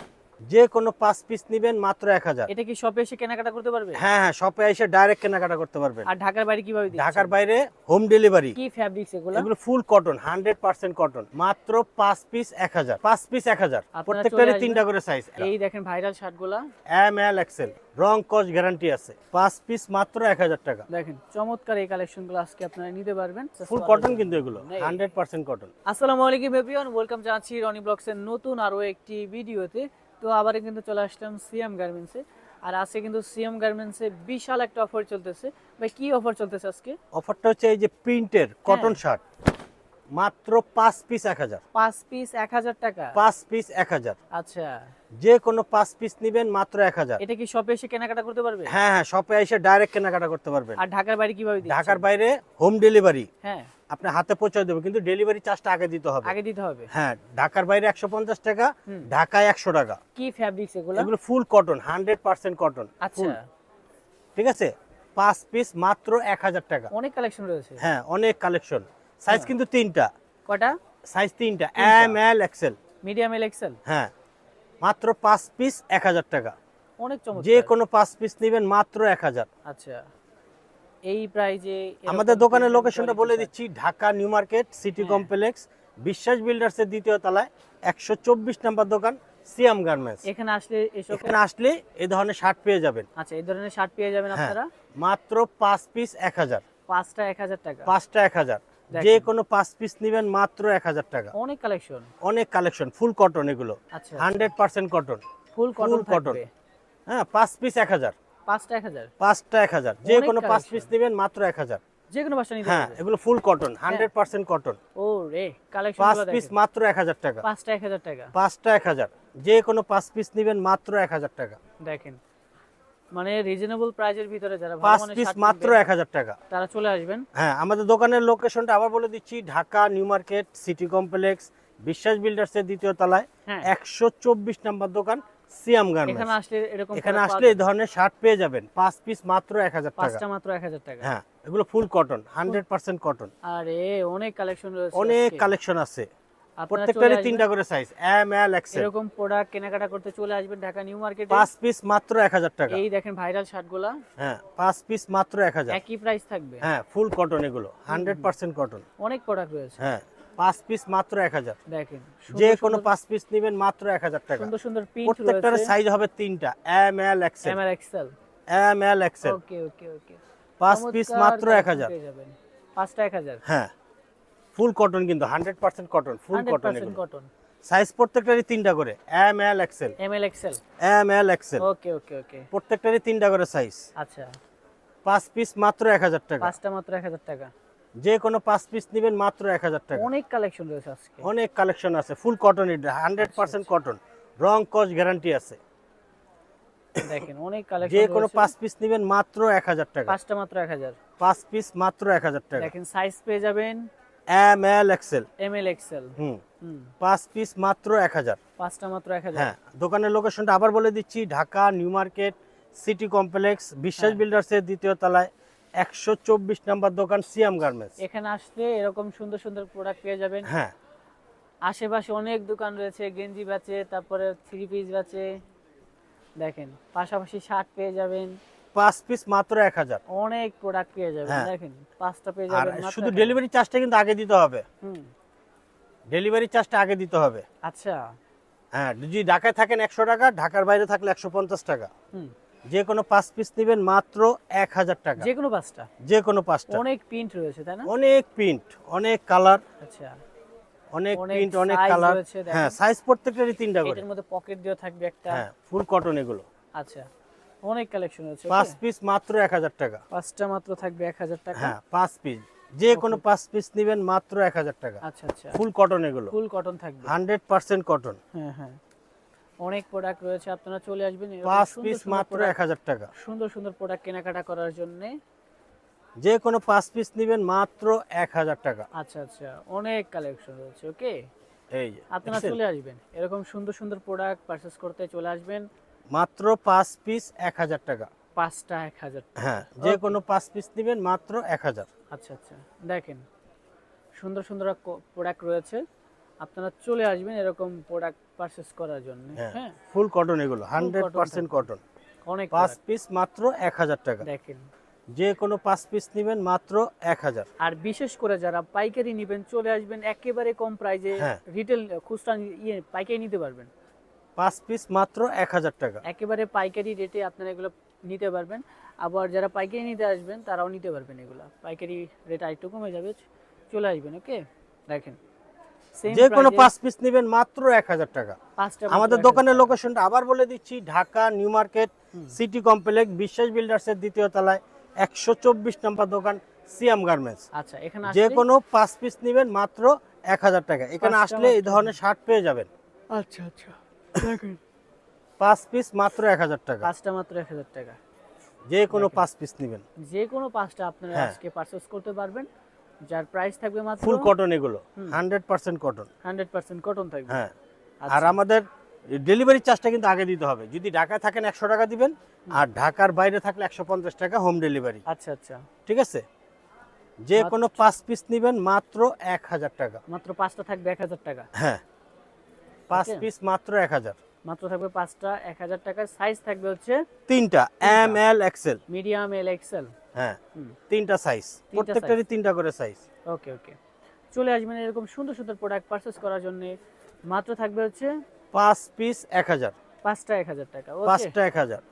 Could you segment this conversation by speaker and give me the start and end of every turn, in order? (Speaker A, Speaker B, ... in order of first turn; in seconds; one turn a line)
Speaker A: 0.5-2.5
Speaker B: 2.5-4.0
Speaker A: 4.0-6.1
Speaker B: 6.0-7.3
Speaker A: 6.9-8.6
Speaker B: 8.5-9.5
Speaker A: 9.3-15.5
Speaker B: 13.9-14.8
Speaker B: 15.4-16.6
Speaker A: 16.9-20.9
Speaker B: 20.9-25.0
Speaker A: 23.6-25.7
Speaker B: 25.9-37.0
Speaker A: 37.1-39.2
Speaker B: 38.7-39.0
Speaker A: 40.1-41.6
Speaker B: 41.7-43.2
Speaker A: 43.1-44.2
Speaker B: 44.3-44.9
Speaker A: 45.2-47.2
Speaker B: 47.2-48.7
Speaker A: 48.7-50.8
Speaker B: 50.8-52.0
Speaker A: 51.6-53.3
Speaker B: 53.4-53.7
Speaker A: 53.9-56.3
Speaker B: 56.2-56.9
Speaker A: 56.9-60.0
Speaker B: 60.1-61.1
Speaker A: 61.0-63.4
Speaker B: 63.0-63.4
Speaker A: 64.3-66.9
Speaker B: 66.9-67.8
Speaker A: 67.8-70.1
Speaker B: 70.5-70.8
Speaker A: 71.1-72.8
Speaker B: 71.8-72.2
Speaker B: 73.0-73.8
Speaker A: 73.8-74.1
Speaker A: 74.8-76.5
Speaker B: 77.0-77.7
Speaker A: 77.3-79.5
Speaker B: 79.6-80.0
Speaker B: 81.0-83.5
Speaker A: 82.1-90.2
Speaker B: 85.0-85.3
Speaker B: 90.2-91.3
Speaker A: 91.1-93.1
Speaker B: 93.2-94.7
Speaker A: 94.3-96.6
Speaker B: 96.9-97.9
Speaker A: 97.9-101.3
Speaker B: 98.9-99.3
Speaker B: 101.3-102.1
Speaker A: 102.2-105.2
Speaker B: 103.9-104.5
Speaker B: 105.5-106.5
Speaker A: 105.8-106.4
Speaker A: 107.1-108.1
Speaker B: 108.5-109.1
Speaker A: 109.2-111.8
Speaker B: 110.0-110.9
Speaker B: 112.1-113.0
Speaker A: 112.6-114.8
Speaker B: 115.0-116.5
Speaker A: 116.0-117.4
Speaker B: 117.4-118.3
Speaker A: 118.3-121.6
Speaker B: 121.8-122.2
Speaker B: 123.1-125.8
Speaker A: 124.8-126.4
Speaker B: 126.5-127.2
Speaker A: 127.3-136.3
Speaker B: 136.0-137.7
Speaker A: 136.9-140.2
Speaker B: 140.0-141.1
Speaker A: 141.0-143.3
Speaker B: 143.4-145.5
Speaker A: 144.9-146.1
Speaker B: 146.6-147.5
Speaker A: 146.7-148.9
Speaker B: 148.7-151.5
Speaker A: 151.3-152.8
Speaker B: 152.7-154.0
Speaker A: 154.2-155.8
Speaker B: 155.7-156.7
Speaker A: 156.6-158.8
Speaker B: 157.9-158.3
Speaker B: 159.0-159.8
Speaker A: 159.8-161.6
Speaker B: 161.7-162.9
Speaker A: 162.3-164.5
Speaker B: 164.3-165.7
Speaker A: 165.1-167.6
Speaker B: 167.4-168.1
Speaker A: 168.5-169.4
Speaker B: 169.2-173.4
Speaker A: 170.6-171.9
Speaker A: 173.4-173.7
Speaker A: 174.6-177.0
Speaker B: 176.3-177.3
Speaker A: 177.7-179.9
Speaker B: 180.0-180.6
Speaker A: 180.8-181.6
Speaker B: 181.6-182.5
Speaker A: 182.5-183.8
Speaker B: 184.0-184.3
Speaker A: 185.1-186.5
Speaker B: 186.4-187.5
Speaker A: 188.0-190.1
Speaker B: 189.9-191.3
Speaker A: 191.2-195.6
Speaker B: 193.2-193.7
Speaker B: 197.0-198.5
Speaker A: 197.8-200.2
Speaker B: 200.1-201.0
Speaker A: 201.2-202.7
Speaker B: 202.6-203.9
Speaker A: 204.3-205.3
Speaker B: 205.4-206.9
Speaker A: 206.2-206.4
Speaker A: 207.0-208.4
Speaker B: 208.6-209.5
Speaker A: 209.3-217.9
Speaker B: 214.0-214.2
Speaker B: 218.0-220.5
Speaker A: 220.4-220.7
Speaker B: 221.7-225.3
Speaker B: 226.4-228.4
Speaker A: 228.7-230.0
Speaker B: 230.1-233.4
Speaker A: 232.5-234.6
Speaker B: 234.8-235.1
Speaker A: 236.1-237.4
Speaker B: 237.6-238.1
Speaker A: 238.7-241.9
Speaker A: 242.7-245.3
Speaker B: 245.2-245.9
Speaker A: 246.0-246.8
Speaker B: 246.7-247.9
Speaker A: 247.9-249.6
Speaker B: 249.8-250.2
Speaker A: 250.9-254.0
Speaker B: 251.1-252.8
Speaker B: 253.8-255.4
Speaker A: 255.3-256.4
Speaker B: 256.8-257.1
Speaker B: 257.6-258.8
Speaker A: 258.5-260.0
Speaker B: 260.1-261.7
Speaker A: 261.6-265.0
Speaker B: 262.9-263.2
Speaker B: 265.0-265.6
Speaker A: 265.5-266.3
Speaker B: 266.3-267.1
Speaker A: 267.0-268.2
Speaker B: 268.3-268.8
Speaker B: 269.6-272.5
Speaker A: 271.4-273.1
Speaker B: 273.1-275.1
Speaker A: 276.2-278.9
Speaker B: 278.9-281.3
Speaker A: 281.7-282.6
Speaker B: 282.1-285.7
Speaker A: 286.1-288.1
Speaker B: 288.4-290.2
Speaker A: 289.4-291.9
Speaker B: 292.1-293.2
Speaker B: 294.1-295.8
Speaker B: 296.4-299.8
Speaker A: 299.4-301.8
Speaker B: 300.8-301.6
Speaker B: 302.2-302.8
Speaker A: 302.5-304.2
Speaker B: 304.2-304.7
Speaker A: 305.1-307.5
Speaker B: 307.6-313.7
Speaker A: 314.4-316.0
Speaker B: 316.0-325.2
Speaker B: 326.0-326.7
Speaker A: 326.1-328.4
Speaker B: 328.6-329.8
Speaker A: 328.9-337.5
Speaker B: 337.5-338.4
Speaker A: 338.0-342.7
Speaker B: 341.0-342.0
Speaker B: 343.1-344.6
Speaker A: 345.4-346.9
Speaker B: 346.8-348.0
Speaker A: 348.7-349.8
Speaker B: 348.9-349.2
Speaker B: 350.0-352.5
Speaker B: 353.0-354.3
Speaker A: 354.0-356.1
Speaker B: 356.2-357.4
Speaker B: 358.0-358.4
Speaker A: 358.1-365.0
Speaker B: 365.1-365.6
Speaker A: 365.9-366.2
Speaker A: 367.2-370.0
Speaker B: 367.4-367.8
Speaker B: 370.1-371.5
Speaker A: 371.5-371.8
Speaker B: 372.9-373.2
Speaker A: 372.9-374.2
Speaker B: 374.4-377.1
Speaker A: 377.3-378.8
Speaker B: 377.8-378.2
Speaker B: 378.9-379.9
Speaker A: 380.1-383.0
Speaker B: 381.7-382.2
Speaker B: 383.3-383.8
Speaker B: 384.3-388.1
Speaker A: 388.5-389.7
Speaker B: 390.0-391.3
Speaker A: 391.1-391.8